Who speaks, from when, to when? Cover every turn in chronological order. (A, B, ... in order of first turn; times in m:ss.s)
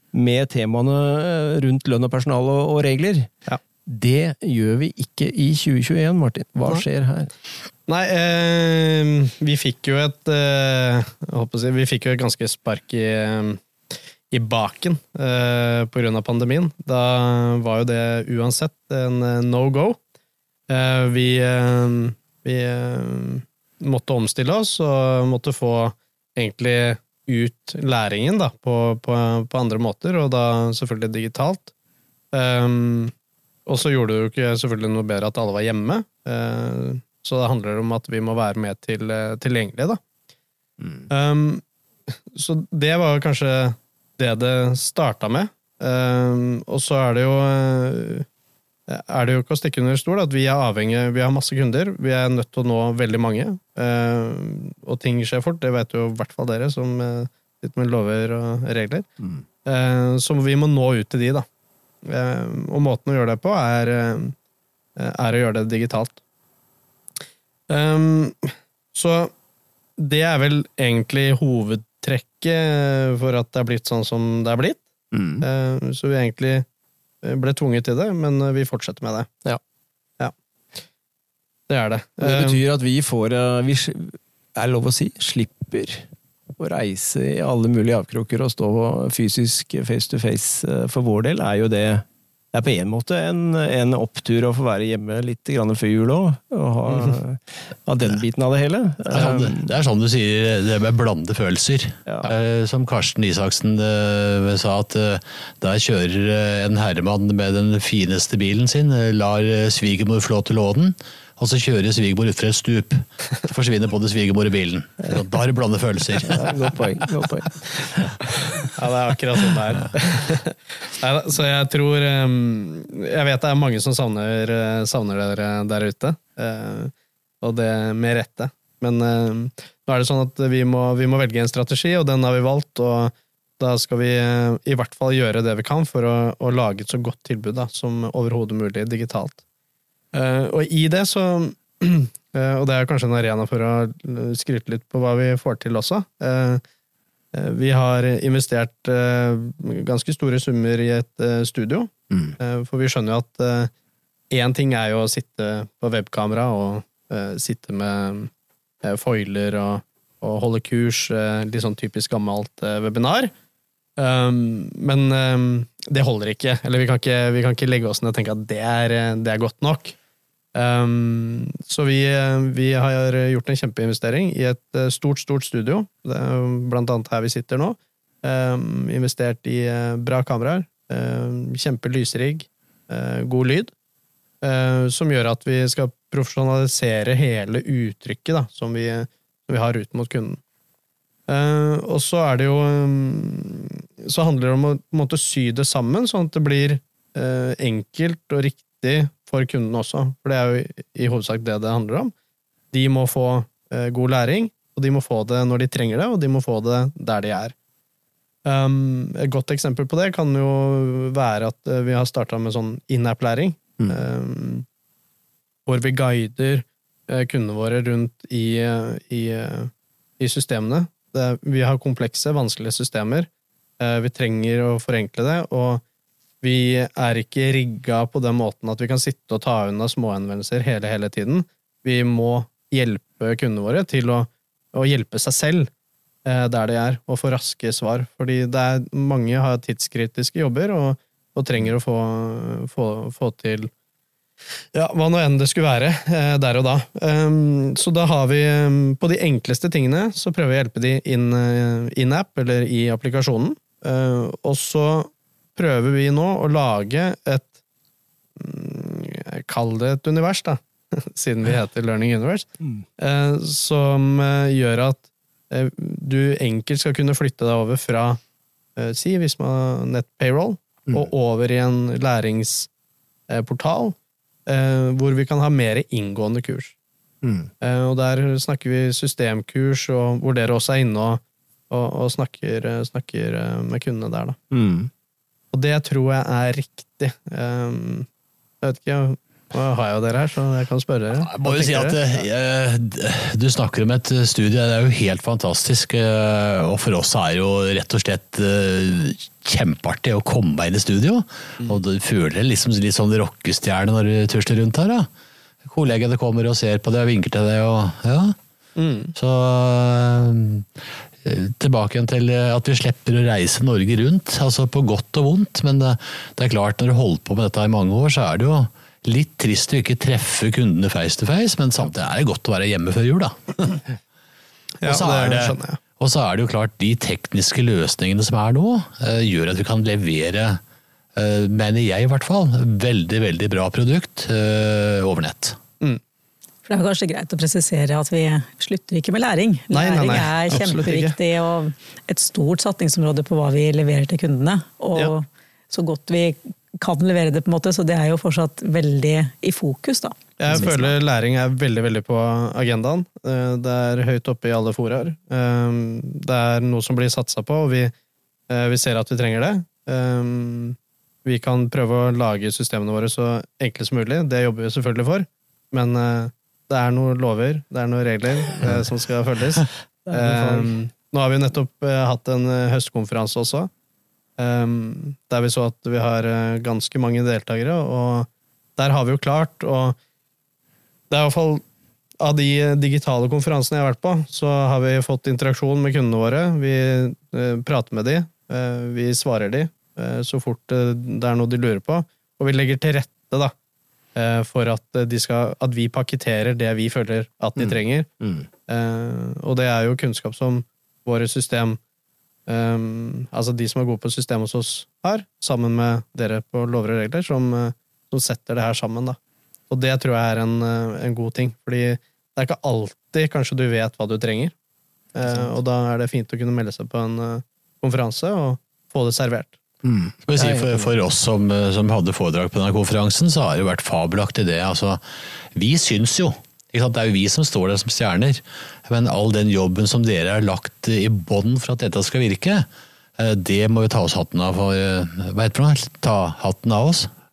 0:00.1-0:03.3 A
0:03.9-0:07.3 A
0:07.9-0:13.6 B
0:14.3-0:20.0 B
0:20.7-0:31.7 B
0:32.3-0:33.1 B
0:33.7-0:40.0 B
0:41.1-0:41.6 B
0:42.3-0:48.3 B
0:48.9-0:59.1 B
0:59.6-1:01.4 B
1:02.1-1:04.4 B
1:05.0-1:06.2 B
1:07.7-1:09.3 B
1:10.0-1:14.8 B
1:15.1-1:15.4 A
1:15.4-1:16.7 B
1:17.2-1:19.4 B
1:21.7-1:22.6 B
1:22.2-1:26.0 A
1:26.6-1:39.7 A
1:39.1-1:56.8 C
1:56.2-1:58.7 A
1:58.6-2:19.4 B
2:20.1-2:26.6 B
2:27.3-2:33.7 B
2:34.3-2:38.3 B
2:38.8-2:43.3 B
2:44.0-2:50.0 B
2:50.5-3:03.7 B
3:04.4-3:10.4 B
3:11.3-3:22.1 B
3:22.7-3:27.6 B
3:28.4-3:34.6 B
3:35.7-3:43.3 B
3:43.8-3:45.8 B
3:46.4-3:55.7 B
3:56.2-4:03.7 B
4:04.7-4:17.5 B
4:18.4-4:22.5 B
4:23.0-4:28.2 B
4:28.8-4:32.7 B
4:33.3-4:36.7 B
4:37.2-4:37.5 A
4:37.6-4:44.4 B
4:44.5-4:44.9 A
4:45.5-4:48.1 B
4:48.6-4:52.0 B
4:51.1-5:05.1 C
5:05.6-5:08.4 C
5:08.8-5:09.1 B
5:09.2-5:10.7 C
5:11.2-5:23.8 C
5:24.8-5:25.8 B
5:24.8-5:30.6 C
5:31.2-5:35.6 C
5:36.7-5:50.9 D
5:39.7-5:41.2 B
5:50.4-5:57.9 B
5:58.5-6:13.7 B
6:10.1-6:10.7 A
6:14.4-6:20.0 B
6:21.1-6:21.6 B
6:22.2-6:33.5 B
6:34.2-6:38.1 B
6:37.6-6:38.5 A
6:38.7-6:41.8 B
6:42.5-6:49.2 B
6:49.7-6:54.5 B
6:55.1-6:59.6 B
6:59.8-7:00.9 A
7:00.3-7:05.0 C
7:05.5-7:12.7 C
7:13.2-7:17.1 C